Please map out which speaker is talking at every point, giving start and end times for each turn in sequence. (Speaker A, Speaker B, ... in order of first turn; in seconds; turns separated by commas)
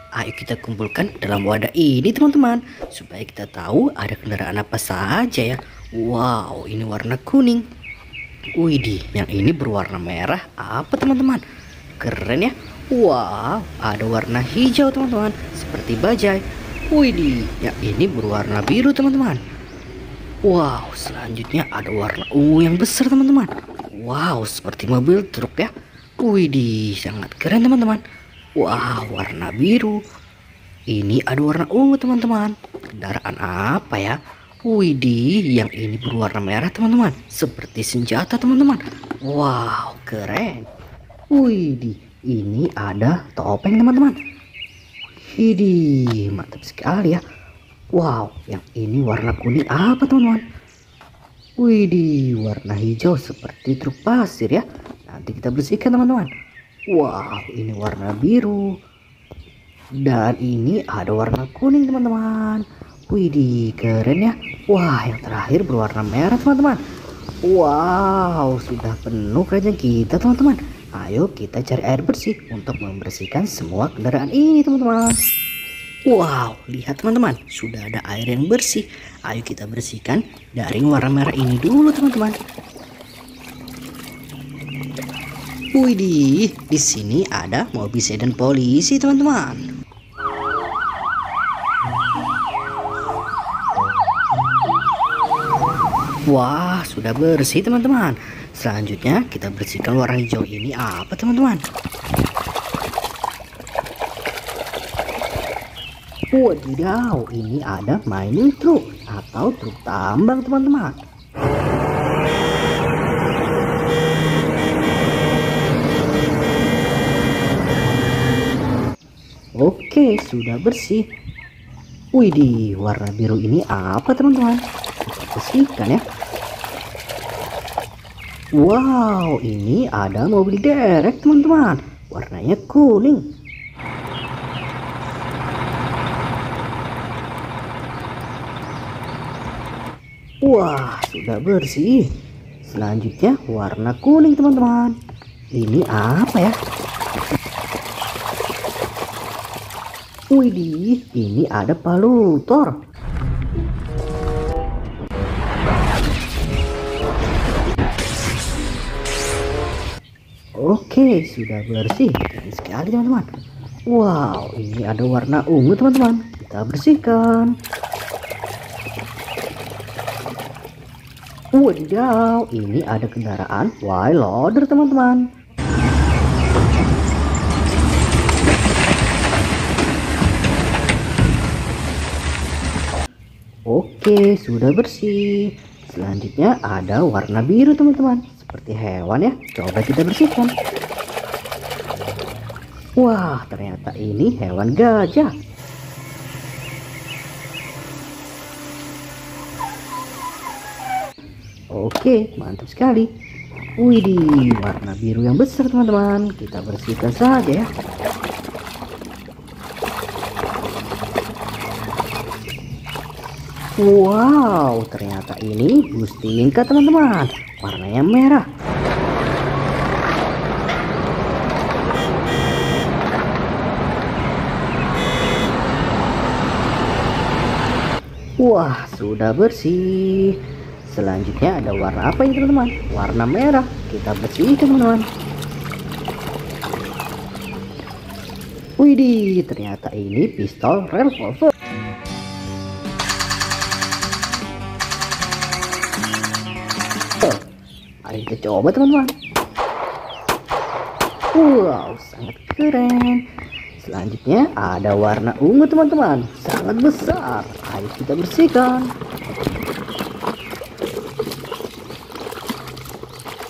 Speaker A: 0.2-7.6, Speaker A: 8.6-11.4, Speaker A: 12.0-19.4, Speaker A: 20.5-25.7, Speaker A: 26.2-28.0, Speaker A: 28.6-30.0, Speaker A: 30.9-34.1, Speaker A: 34.7-40.7, Speaker A: 41.3-44.2, Speaker A: 45.3-47.2, Speaker A: 48.0-50.4, Speaker A: 51.6-56.3, Speaker A: 56.9-58.6, Speaker A: 60.0-66.8, Speaker A: 67.5-75.2, Speaker A: 76.1-82.3, Speaker A: 85.8-89.6, Speaker A: 96.3-101.6, Speaker A: 106.3-111.0, Speaker A: 119.6-121.0, Speaker A: 122.2-126.0, Speaker A: 128.6-133.2, Speaker A: 140.4-142.0, Speaker A: 142.6-144.9, Speaker A: 145.6-146.5, Speaker A: 150.3-152.8, Speaker A: 160.6-163.3, Speaker A: 163.9-167.5, Speaker A: 171.6-175.2, Speaker A: 183.7-185.2, Speaker A: 185.9-190.5, Speaker A: 193.0-195.3, Speaker A: 201.8-203.1, Speaker A: 203.8-207.7, Speaker A: 213.8-218.4, Speaker A: 228.4-235.1, Speaker A: 238.8-241.5, Speaker A: 248.1-249.1, Speaker A: 251.4-253.2, Speaker A: 253.8-258.9